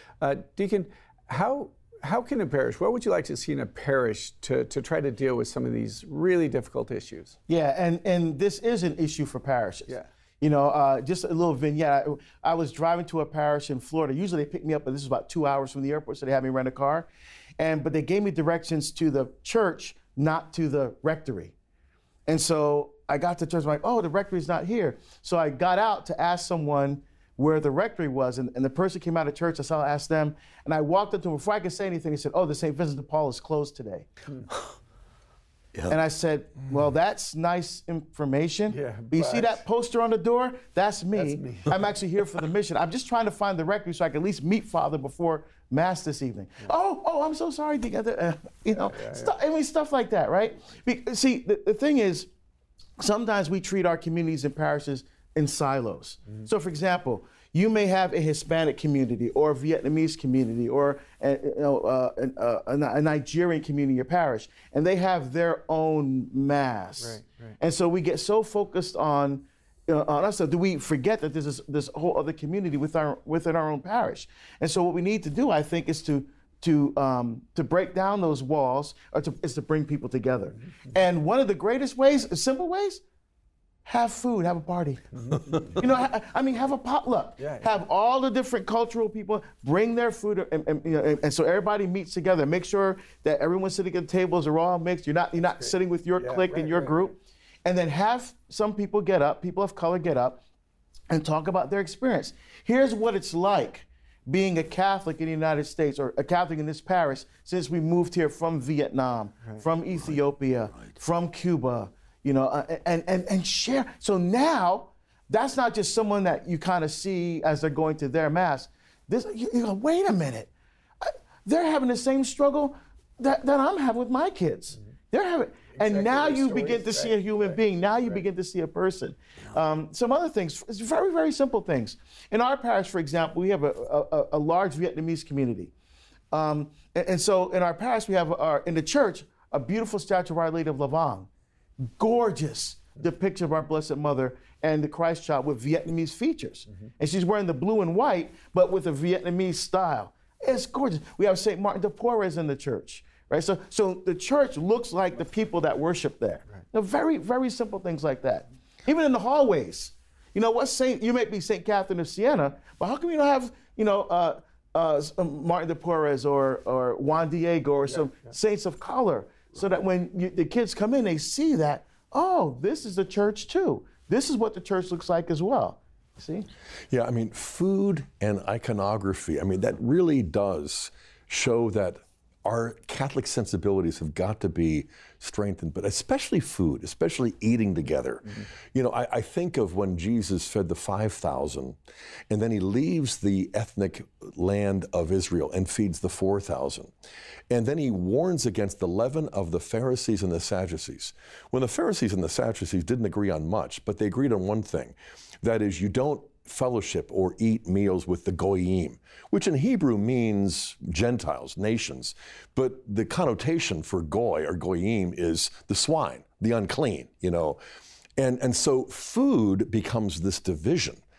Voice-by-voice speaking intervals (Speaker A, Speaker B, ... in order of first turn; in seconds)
Speaker A: 0.2-7.4, 38.7-39.6, 41.1-41.8, 48.9-49.3, 67.0-67.6, 85.2-85.6, 87.4-87.8, 95.4-97.1, 125.7-128.2
Speaker B: 7.5-21.5, 22.3-34.1, 35.9-52.3, 53.0-83.0, 83.8-100.4, 101.1-120.5, 121.0-135.7, 136.3-141.3, 142.0-176.5
Speaker C: 176.9-191.8, 192.3-196.9, 197.5-217.6, 218.2-221.0